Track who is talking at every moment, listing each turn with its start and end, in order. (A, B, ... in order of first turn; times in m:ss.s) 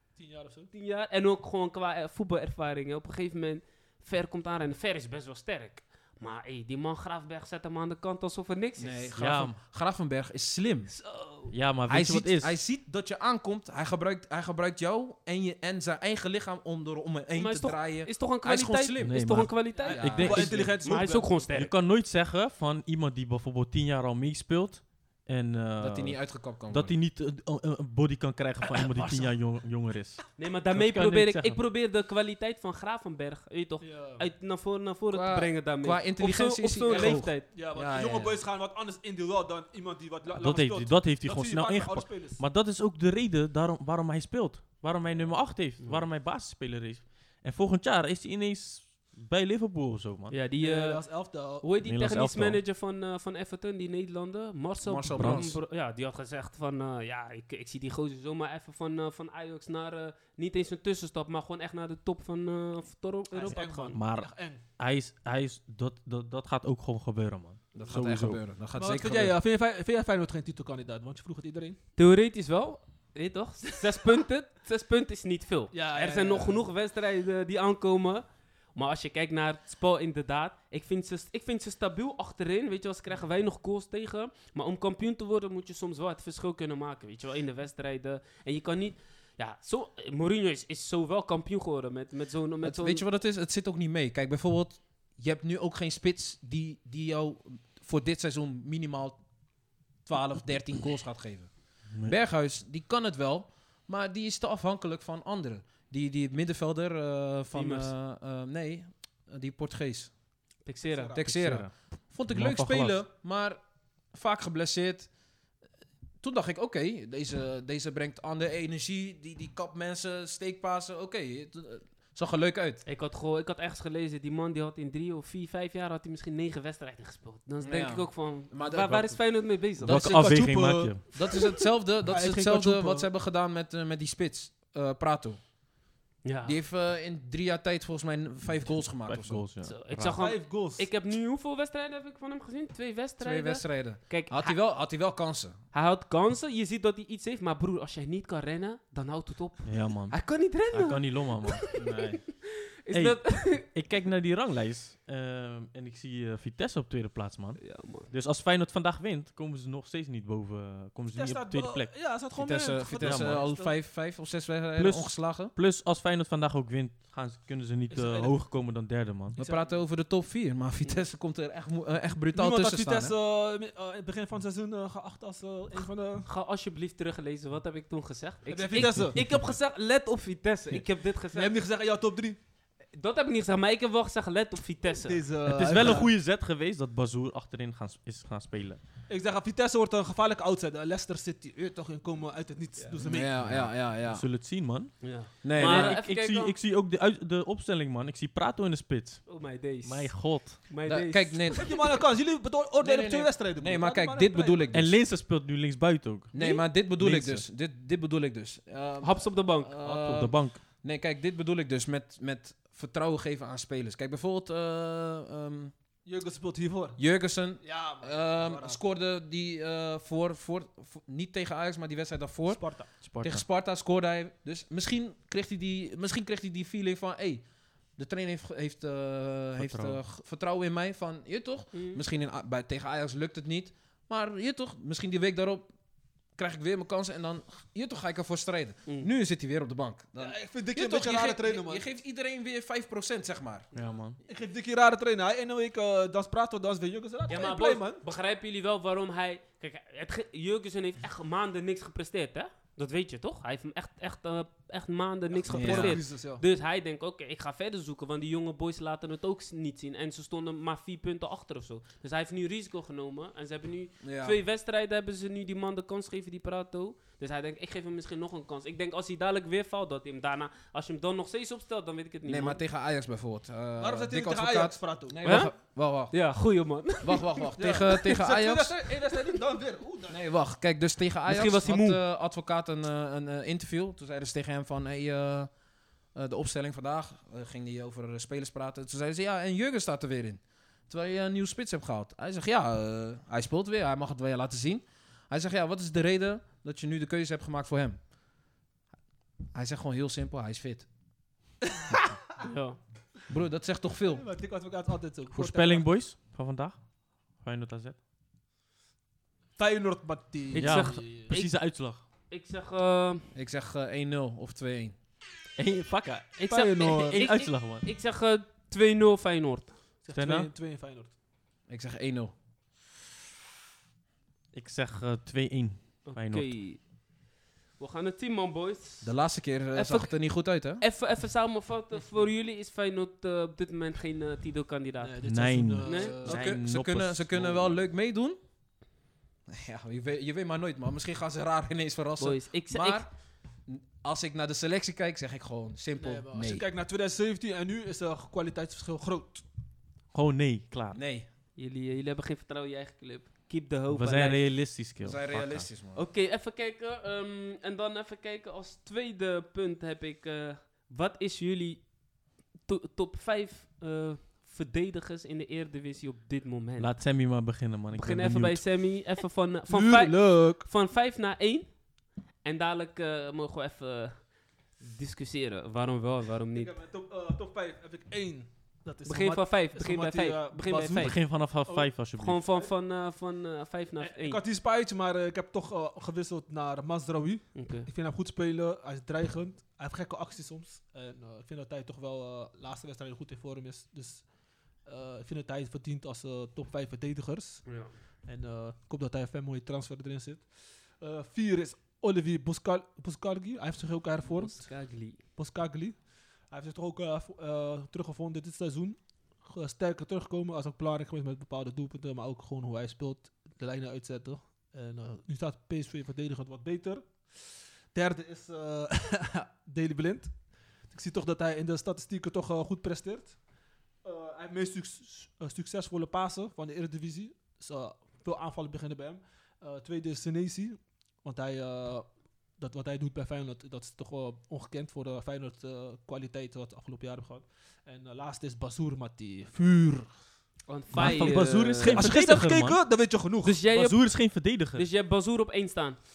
0:00.2-0:00.7 A
0:00.7-0:09.1 B
0:08.8-0:10.9 C
0:09.2-0:09.6 D
0:10.9-0:11.5 B
0:11.5-0:12.6 D
0:11.9-0:19.3 C
0:17.3-0:21.7 B
0:19.0-0:21.0 D
0:19.7-0:21.3 A
0:19.9-0:20.6 C
0:21.5-0:31.6 D
0:25.8-0:27.0 C
0:30.4-0:37.5 B
0:33.8-0:34.3 A
0:35.1-0:38.4 C
0:36.9-0:42.4 A
0:40.3-0:50.4 D
0:45.8-0:46.0 B
0:50.3-1:04.0 B
0:50.6-0:51.7 A
0:51.8-0:52.6 D
0:54.8-0:55.6 C
0:55.2-0:55.6 D
1:03.3-1:04.6 A
1:03.9-1:08.4 D
1:07.8-1:09.4 C
1:08.7-1:11.8 A
1:12.0-1:33.0 B
1:15.7-1:16.6 A
1:32.6-1:39.2 C
1:40.0-1:50.1 C
1:41.9-1:42.2 D
1:47.5-1:47.9 B
1:50.6-1:51.2 B
1:50.9-1:51.2 A
1:51.1-1:53.6 C
1:51.2-1:53.0 D
1:54.1-1:55.1 C
1:56.2-2:02.8 C
2:02.9-2:10.0 B
2:07.6-2:09.2 C
2:09.8-2:10.4 C
2:09.8-2:11.0 D
2:09.9-2:11.0 A
2:11.0-2:15.5 C
2:12.0-2:13.1 A
2:16.2-2:16.6 B
2:16.4-2:19.4 C
2:19.1-2:20.2 D
2:19.6-2:24.6 B
2:20.2-2:20.9 A
2:23.2-2:25.6 C
2:25.7-2:33.7 B
2:29.7-2:32.3 D
2:32.9-2:41.9 D
2:37.6-2:38.1 B
2:41.1-2:43.8 A
2:42.4-2:45.5 C
2:43.0-2:43.4 D
2:44.8-2:49.4 D
2:47.9-2:48.4 A
2:49.4-2:49.8 A
2:49.4-2:53.1 C
2:52.3-2:56.3 A
2:56.2-3:01.6 B
2:58.5-2:59.2 A
3:01.3-3:02.4 A
3:02.9-3:05.2 B
3:05.0-3:06.1 A
3:05.5-3:08.8 D
3:09.1-3:13.3 A
3:13.0-3:14.2 C
3:13.4-3:20.7 D
3:15.0-3:16.6 B
3:15.4-3:16.0 C
3:19.3-3:21.7 B
3:20.8-3:21.8 C
3:21.6-3:24.7 A
3:22.8-3:24.9 C
3:24.7-3:26.4 D
3:26.3-3:35.7 C
3:27.0-3:27.4 D
3:29.0-3:29.7 B
3:29.8-3:30.6 D
3:36.0-3:37.0 A
3:37.0-3:47.4 C
3:37.6-3:38.8 A
3:42.5-3:42.9 A
3:43.0-3:43.4 D
3:48.0-3:55.7 C
3:49.6-3:50.0 D
3:51.7-3:52.0 B
3:56.4-4:03.7 C
4:00.2-4:01.8 A
4:03.7-4:04.2 D
4:04.3-4:08.0 A
4:07.3-4:32.6 B
4:15.4-4:16.4 A
4:15.5-4:16.0 C
4:24.0-4:24.4 C
4:32.3-4:36.2 C
4:33.8-4:35.4 A
4:35.2-4:35.6 B
4:36.1-4:38.0 B
4:37.0-4:38.8 C
4:37.6-4:40.2 A
4:40.1-4:45.5 C
4:41.3-4:42.0 B
4:46.2-4:58.0 C
4:59.5-5:00.9 C
5:02.4-5:02.8 B
5:03.3-5:04.2 C
5:04.1-5:05.9 A
5:05.3-5:06.8 D
5:07.4-5:08.0 D
5:09.6-5:11.3 A
5:10.5-5:11.8 B
5:10.6-5:12.0 D
5:12.3-5:13.3 B
5:13.4-5:15.0 C
5:15.6-5:17.9 D
5:16.4-5:19.8 B
5:16.5-5:17.3 A
5:20.0-5:21.1 A
5:20.1-5:20.5 D
5:21.7-5:22.3 C
5:24.5-5:26.5 D
5:26.1-5:26.9 B
5:27.8-5:29.1 B
5:29.0-5:30.8 C
5:29.7-5:30.3 B
5:30.8-5:35.2 B
5:35.0-5:36.5 A
5:35.2-5:37.7 D
5:35.8-5:36.2 B
5:36.2-5:38.4 C
5:39.5-5:46.7 C
5:42.2-5:43.0 B
5:46.0-5:49.4 A
5:50.1-5:51.0 D
5:50.9-5:51.3 C
5:51.6-5:54.4 B
5:53.9-5:55.7 D
5:55.0-5:56.0 C
5:55.9-6:02.0 B
6:02.6-6:07.0 B
6:06.8-6:08.8 D
6:07.9-6:11.9 B
6:09.7-6:10.7 A
6:12.4-6:16.8 B
6:16.6-6:21.9 A
6:19.0-6:21.2 B
6:21.0-6:22.4 D
6:22.2-6:24.4 B
6:24.0-7:03.4 A
6:27.6-6:27.9 B
6:37.7-6:37.9 B
6:44.2-6:45.2 B
7:04.0-7:20.2 A
7:20.7-7:22.1 B
7:20.9-7:22.8 D
7:21.0-7:23.6 A
7:23.4-7:26.0 B
7:23.7-7:24.9 D